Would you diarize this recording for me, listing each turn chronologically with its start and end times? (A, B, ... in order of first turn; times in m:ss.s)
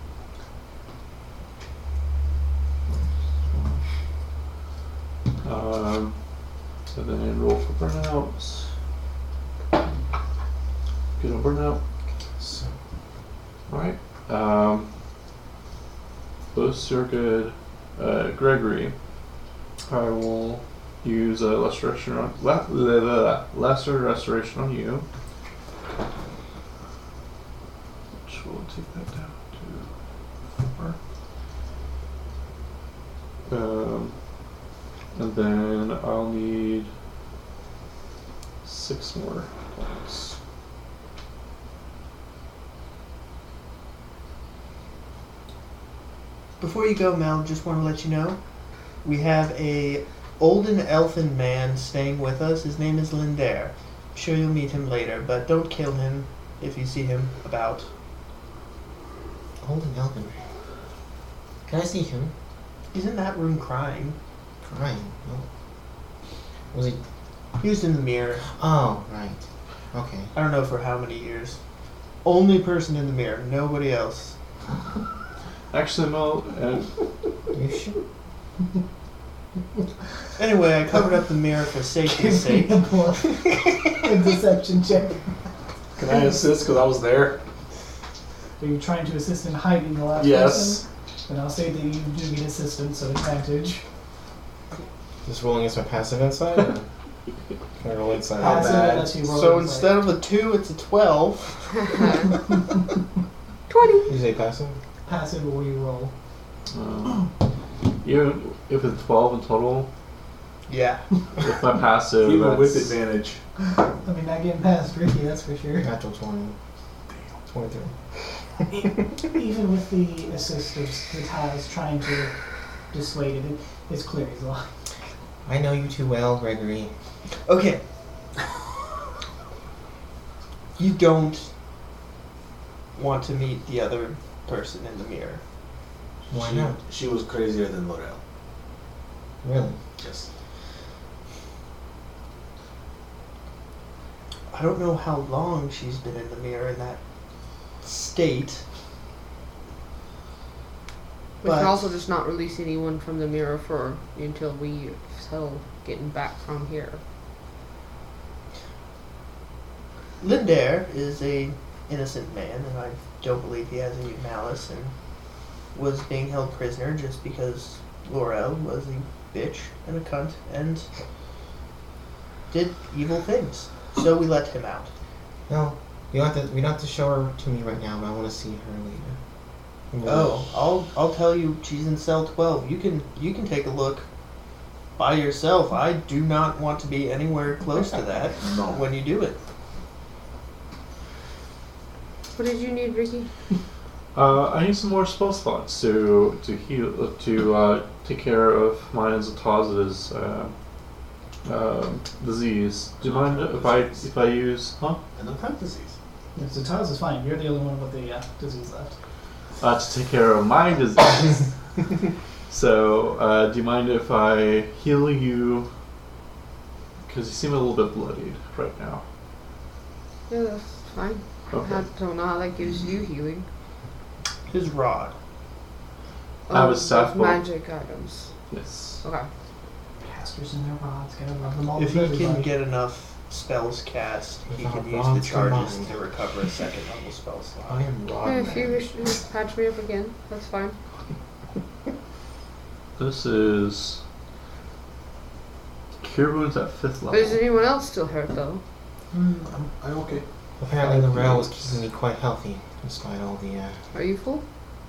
0:05.4-0:06.2 A
0:06.9-0:08.7 A
0:11.2-0:11.8 A
0:12.4-0:12.7 B
0:13.7-0:14.9 A
0:16.5-0:18.9 A
0:19.9-0:25.0 A
0:28.2-0:29.9 A
0:30.6-0:31.0 A
0:33.5-0:34.2 A
0:35.1-0:36.9 A
0:38.6-0:40.4 A
0:46.6-0:48.4 C
0:49.0-0:57.9 C
0:59.6-1:00.4 B
1:01.7-1:02.3 B
1:02.9-1:04.2 C
1:04.6-1:05.5 B
1:06.7-1:07.0 B
1:07.6-1:08.4 C
1:08.5-1:10.3 B
1:10.3-1:11.6 C
1:12.2-1:14.4 C
1:15.7-1:16.9 A
1:17.5-1:17.9 B
1:20.4-1:22.9 C
1:22.0-1:25.2 D
1:26.0-1:27.4 E
1:28.6-1:33.8 D
1:30.2-1:30.8 E
1:35.2-1:36.8 B
1:37.8-1:38.9 B
1:38.4-1:39.2 E
1:38.4-1:40.0 D
1:39.2-1:42.2 C
1:43.7-1:44.2 F
1:44.0-1:44.8 B
1:45.0-1:46.1 D
1:46.7-1:47.3 A
1:48.0-1:49.9 A
1:50.7-1:51.0 C
1:51.4-1:53.0 A
1:52.2-1:53.4 E
1:54.0-1:55.9 D
1:55.8-1:56.6 B
1:57.5-1:57.9 B
1:59.2-2:02.3 D
2:02.9-2:04.7 D
2:05.4-2:06.9 B
2:07.4-2:07.8 C
2:10.8-2:11.5 C
2:13.0-2:15.4 C
2:16.3-2:18.2 E
2:16.3-2:16.8 B
2:19.4-2:19.8 B
2:20.0-2:20.3 E
2:24.5-2:27.0 C
2:27.8-2:28.6 C
2:31.4-2:37.0 F
2:31.4-2:31.8 C
2:40.2-2:44.9 C
2:45.7-2:50.9 C
2:52.5-2:54.9 C
2:55.5-2:59.2 B
2:59.9-3:00.4 B
3:00.0-3:04.1 C
3:05.0-3:09.4 C
3:08.4-3:08.8 E
3:12.3-3:13.3 F
3:14.1-3:20.5 A
3:21.4-3:25.0 A
3:23.0-3:24.0 E
3:25.1-3:25.9 E
3:26.4-3:28.9 D
3:29.6-3:31.5 A
3:32.5-3:35.7 A
3:37.0-3:39.0 A
3:40.3-3:43.4 F
3:41.5-3:41.8 A
3:44.5-3:45.2 C
3:46.5-3:47.4 A
3:46.5-3:48.3 F
3:48.5-3:49.0 A
3:50.0-3:52.5 D
3:51.8-3:57.8 C
3:54.5-3:56.0 B
3:57.7-3:58.9 B
3:58.2-4:00.8 F
4:03.0-4:04.0 A
4:06.0-4:07.4 A
4:07.1-4:08.6 F
4:09.1-4:10.2 E
4:09.1-4:09.4 C
4:10.6-4:13.8 B
4:10.8-4:11.4 E
4:13.9-4:14.4 F